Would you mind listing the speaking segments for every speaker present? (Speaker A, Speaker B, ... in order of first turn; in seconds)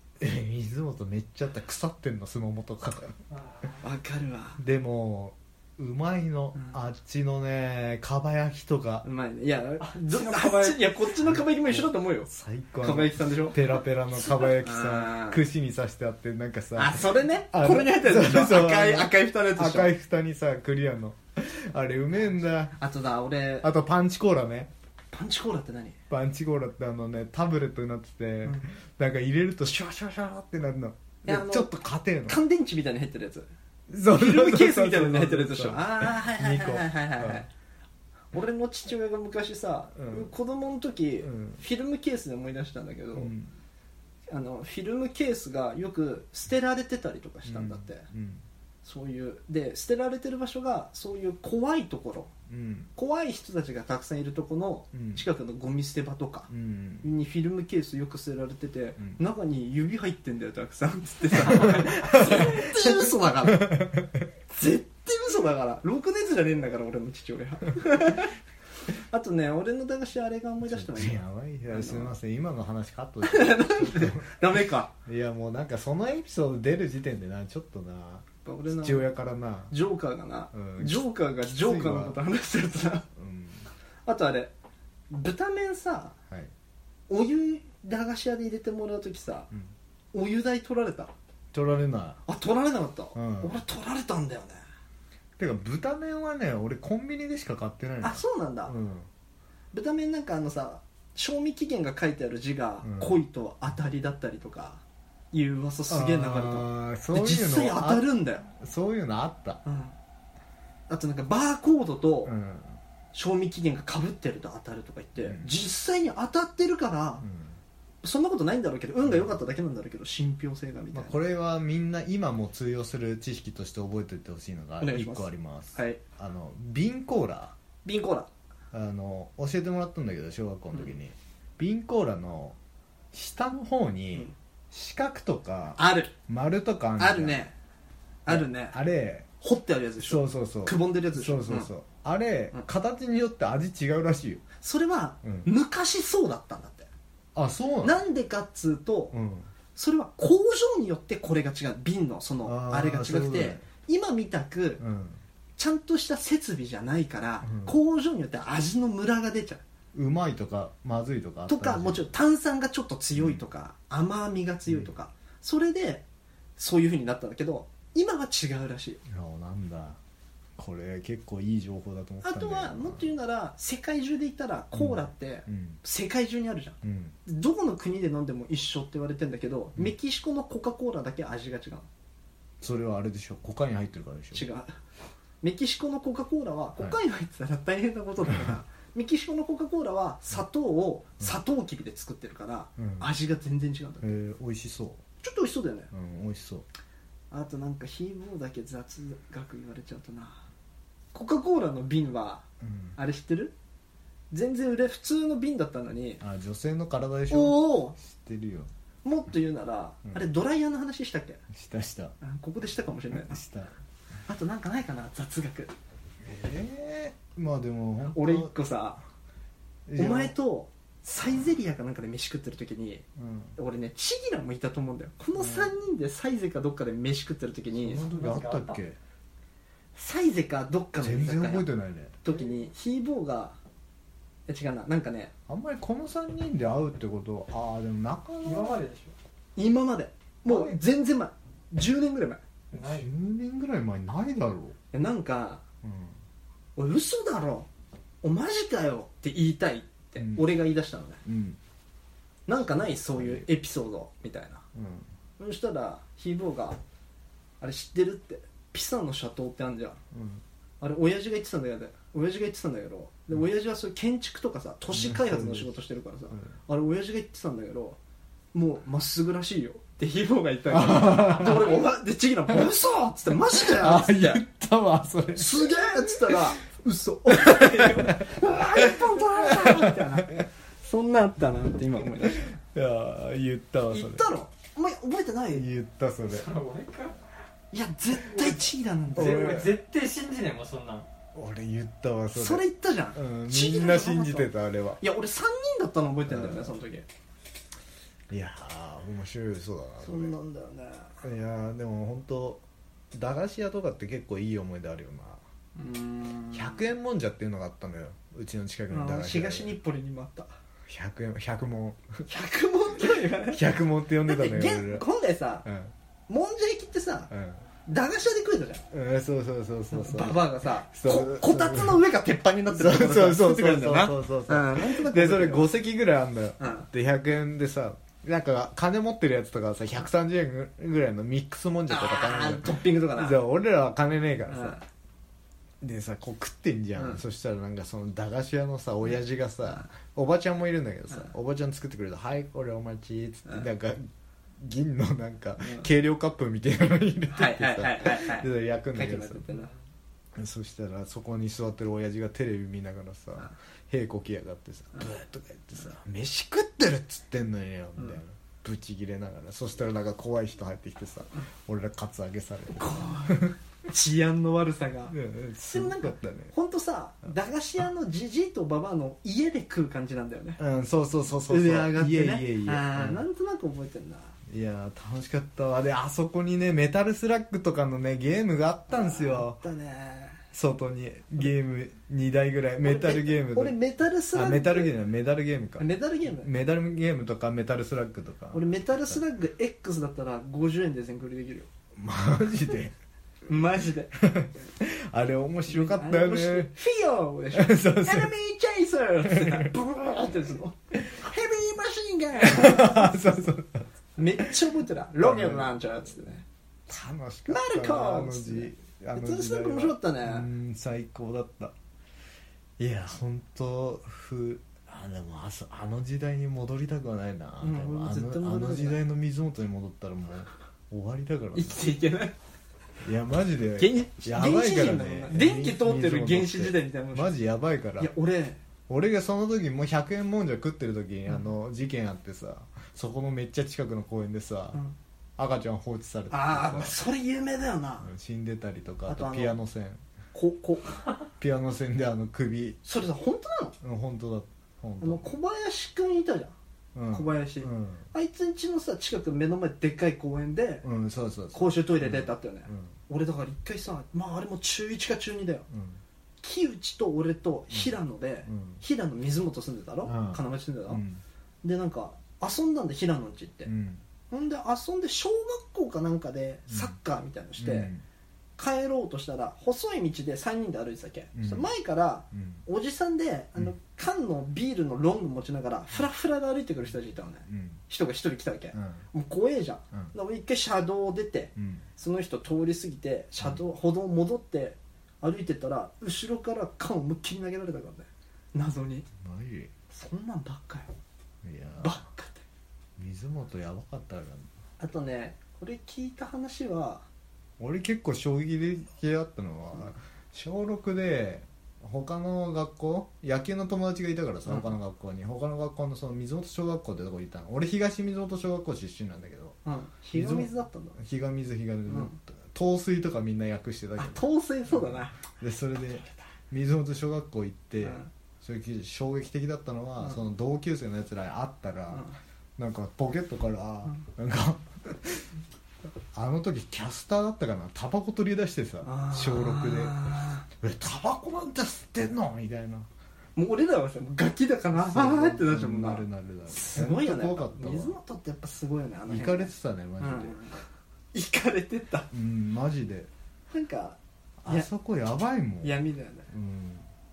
Speaker A: 0.2-3.2, 4.6-9.0, 11.2-22.8, 23.6-24.7, 26.1-32.4, 33.9-37.5, 40.0-40.3, 41.2-41.6, 43.1-43.5, 47.5-48.4, 52.5-52.9, 54.9-55.2, 56.5-57.1, 61.4-64.3, 70.6-74.3, 75.0-79.7, 80.5-82.2, 83.1-83.7, 91.5-92.2, 93.1-93.5, 95.4-99.1, 102.8-103.2, 105.9-109.6, 112.2-112.8, 115.2-115.5, 117.2-117.6, 120.9-127.5, 128.7-132.6, 133.1-137.4, 138.3-139.3, 140.0-144.4, 145.2-145.5, 147.3-148.0, 149.1-149.5, 152.4-153.6, 154.8-155.2, 157.4-157.7, 159.9-162.1, 163.2-163.4, 169.1-170.0, 170.6-173.1, 174.7-175.8, 176.8-177.2, 182.6-184.4, 192.8-193.1, 194.0-195.0, 195.9-196.7, 202.6-203.0, 206.2-208.7, 211.5-212.2, 213.1-213.7, 216.2-218.5, 219.9-220.3, 223.2-223.6, 225.3-225.7, 227.7-229.0, 231.0-232.1, 235.5-238.8, 240.4-240.8, 242.8-244.8, 245.8-246.2, 250.2-250.4, 251.2-251.6, 253.1-253.5, 254.7-255.1, 260.1-260.4, 264.9-265.7, 270.7-271.8, 273.5-276.5, 277.3-280.4, 282.2-284.3, 285.5-286.5, 289.1-289.8, 291.3-292.6, 293.1-295.0, 296.3-296.8, 298.3-300.3, 301.2-305.4, 306.5-309.8, 310.9-312.3, 313.5-315.1, 315.6-315.9, 317.3-317.6, 318.9-322.1, 322.7-334.8, 335.8-349.4, 350.3-363.5, 365.1-366.5, 370.6-373.2, 374.5-379.6, 380.5-383.8, 384.3-389.2, 391.9-392.9, 394.2-396.7, 397.5-398.3, 399.2-399.7, 402.4-404.5, 405.2-405.7, 406.9-411.7, 412.8-421.8, 423.0-428.1, 428.9-434.8, 435.4-437.0, 438.0-440.0, 441.4-442.8, 443.8-445.3, 446.9-448.1, 450.8-452.9, 455.7-456.0, 458.5-458.8, 460.0-461.2, 463.6-464.0, 466.7-466.9, 467.6-468.0, 471.4-471.7, 472.3-472.6, 477.5-477.8, 478.7-479.0, 481.6-481.8, 489.2-489.7, 491.4-492.0, 493.0-494.5, 497.6-509.6, 510.1-522.0, 522.6-525.3, 526.1-530.0, 530.5-532.9, 534.7-538.0, 539.1-540.4, 542.1-543.1, 544.4-545.8, 546.3-546.9
Speaker B: 3.3-3.8, 10.0-10.5, 228.0-228.8, 238.4-239.1, 242.7-243.1, 286.3-287.2, 289.1-291.1
Speaker C: 3.8-4.6, 9.0-12.3, 12.8-13.6, 14.2-15.4, 16.8-19.9, 22.8-23.7, 25.1-26.0, 31.2-31.7, 32.3-33.5, 34.1-37.5, 38.3-43.3, 44.3-48.0, 48.8-52.3, 52.9-56.5, 57.0-63.8, 64.5-68.3, 68.9-72.2, 73.2-74.9, 78.4-79.1, 79.7-83.0, 84.0-84.5, 85.1-86.2, 87.1-89.5, 90.1-91.1, 92.2-94.6, 98.0-98.7, 99.7-108.5, 109.6-109.9, 110.9-112.3, 113.1-117.2, 118.0-121.2, 124.8-126.0, 127.8-128.3, 135.8-136.1, 137.0-137.5, 138.2-138.8, 139.4-141.7, 144.6-146.9, 147.8-149.1, 149.7-154.8, 155.6-159.6, 161.5-166.0, 166.6-169.0, 172.2-181.9, 184.3-184.8, 185.4-194.1, 195.2-195.9, 197.3-200.4, 201.1-203.5, 204.3-206.2, 207.3-207.9, 209.0-211.4, 212.2-213.4, 214.3-215.7, 218.1-219.0, 220.0-223.0, 223.6-228.0, 229.9-231.7, 232.2-233.6, 234.5-235.3, 239.6-242.4, 244.9-245.6, 246.8-247.7, 248.2-251.2, 252.5-254.6, 255.4-256.8, 257.6-260.0, 260.8-268.0, 268.5-274.4, 275.3-282.5, 283.9-285.6, 287.7-289.6, 292.3-294.5, 295.0-297.1, 300.0-301.2, 305.8-306.8, 308.9-310.5, 312.3-313.6, 314.2-315.6, 316.3-317.3, 317.9-318.8, 319.9-325.7, 326.6-326.9, 331.9-333.4, 334.5-334.8, 336.9-337.2, 345.6-345.9, 347.3-349.7, 362.7-365.2, 365.7-370.6, 371.5-374.4, 378.9-380.4, 382.8-384.9, 385.8-386.5, 388.5-391.7, 393.5-394.2, 395.7-403.2, 404.1-406.4, 407.5-410.5, 417.6-419.0, 421.5-422.3, 423.8-427.3, 428.0-428.6, 436.3-438.1, 439.1-439.6, 440.3-441.0, 442.8-443.7, 445.0-446.5, 447.1-450.9, 451.5-455.6, 456.4-461.0, 461.6-463.7, 464.3-467.9, 468.6-489.1, 489.9-490.9, 491.8-492.4, 494.8-497.1, 504.4-504.7, 509.6-511.0, 511.9-512.2, 514.0-515.2, 517.8-518.1, 521.9-522.1, 528.8-530.5, 533.4-542.1, 543.5-544.7, 545.6-546.3